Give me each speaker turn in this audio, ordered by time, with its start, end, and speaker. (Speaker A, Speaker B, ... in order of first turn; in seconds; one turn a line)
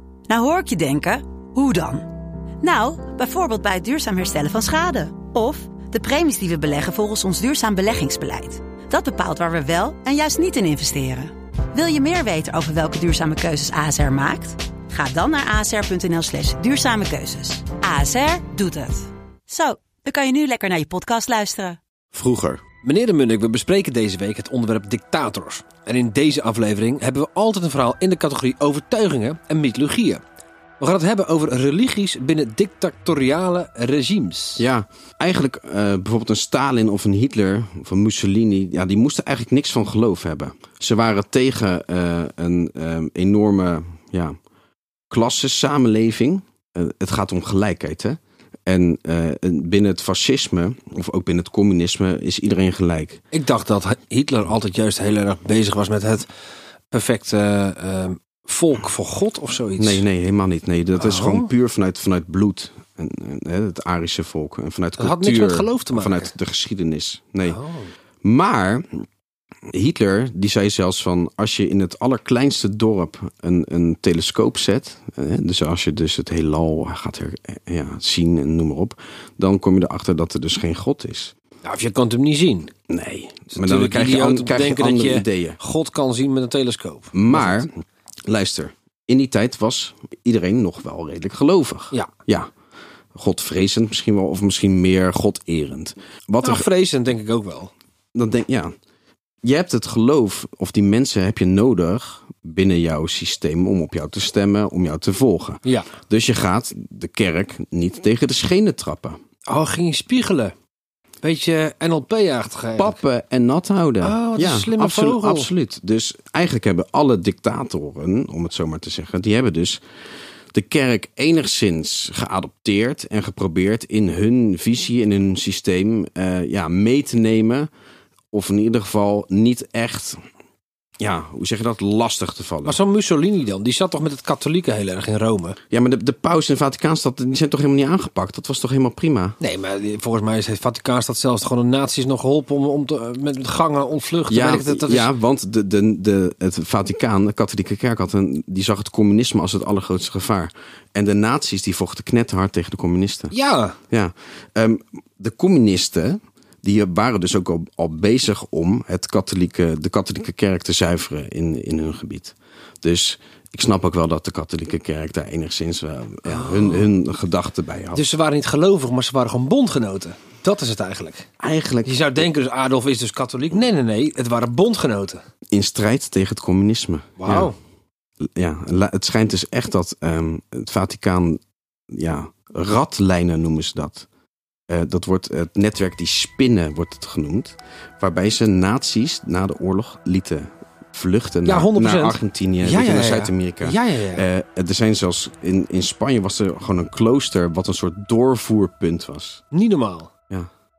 Speaker A: 0.3-2.1
Speaker A: 2.6-21.8
Speaker B: 22.1-22.6
Speaker C: 22.8-30.2
Speaker C: 30.8-34.6
Speaker B: 34.6-44.4
Speaker B: 45.1-53.2
Speaker C: 53.3-56.3
Speaker C: 56.9-60.0
Speaker B: 59.8-67.6
Speaker C: 61.0-61.5
Speaker C: 65.0-66.3
Speaker C: 67.5-67.9
Speaker B: 68.2-69.0
Speaker B: 69.7-81.3
Speaker C: 81.6-82.7
Speaker B: 82.9-85.6
Speaker C: 83.5-87.7
Speaker B: 87.1-87.7
Speaker B: 88.3-92.5
Speaker B: 93.1-96.7
Speaker C: 96.4-97.7
Speaker B: 98.1-98.7
Speaker B: 99.4-109.2
Speaker C: 109.5-110.5
Speaker C: 111.2-113.0
Speaker B: 112.8-119.8
Speaker C: 114.0-115.5
Speaker B: 120.5-127.7
Speaker B: 128.3-130.2
Speaker B: 131.0-132.8
Speaker C: 132.6-135.6
Speaker B: 135.7-139.4
Speaker C: 139.4-145.1
Speaker B: 144.3-153.3
Speaker C: 153.3-153.8
Speaker B: 153.9-168.0
Speaker C: 166.3-166.9
Speaker C: 167.9-171.3
Speaker B: 171.4-172.0
Speaker C: 171.8-175.2
Speaker B: 175.5-177.5
Speaker C: 177.2-177.5
Speaker B: 178.3-181.4
Speaker B: 181.9-184.1
Speaker B: 184.7-199.4
Speaker C: 191.4-194.2
Speaker C: 199.5-200.1